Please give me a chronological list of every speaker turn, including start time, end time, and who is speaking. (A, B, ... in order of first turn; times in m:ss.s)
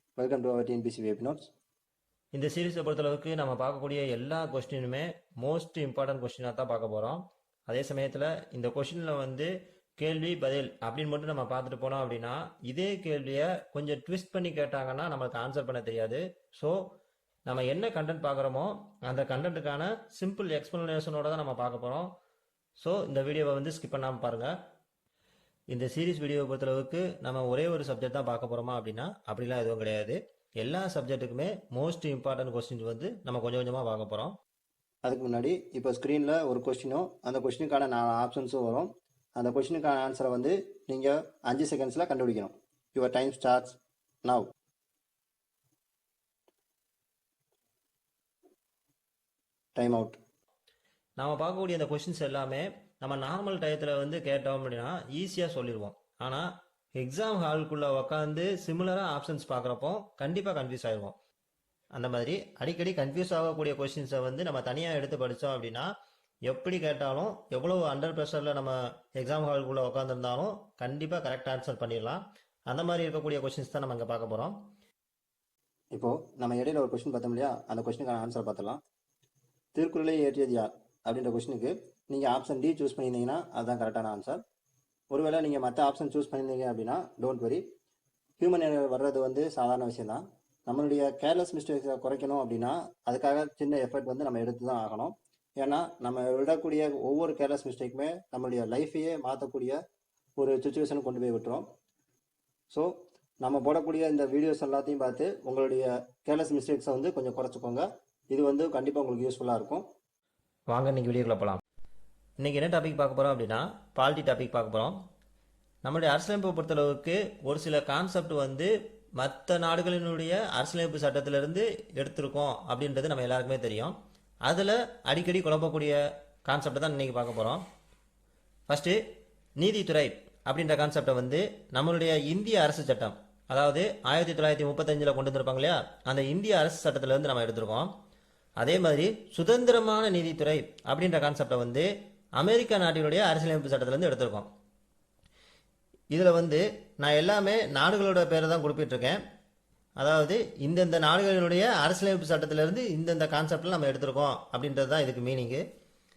0:00.2-0:01.5 A
0:02.3-0:16.8 B
0:17.5-0:22.1 B
0:22.8-0:24.5 B
0:25.7-0:34.4 B
0:35.0-0:44.5 A
0:49.8-0:50.2 A
0:51.2-1:01.1 B
1:01.9-1:05.9 B
1:06.5-1:14.6 B
1:15.9-1:18.8 A
1:19.7-1:24.4 A
1:25.1-1:27.6 A
1:28.4-1:39.8 A
1:40.4-1:41.6 A
1:42.7-1:49.8 A
1:50.7-1:51.6 B
1:52.4-1:55.0 B
1:55.8-2:03.9 B
2:04.5-2:06.0 B
2:06.5-2:07.6 B
2:08.7-2:09.0 B
2:09.6-2:17.9 B
2:18.6-2:21.8 B
2:22.4-2:24.4 B
2:26.2-2:26.5 A
2:26.5-2:29.1 B
2:27.1-2:29.0 A
2:30.0-2:31.9 B
2:31.4-2:34.0 A
2:32.6-2:34.7 B
2:34.7-2:35.6 A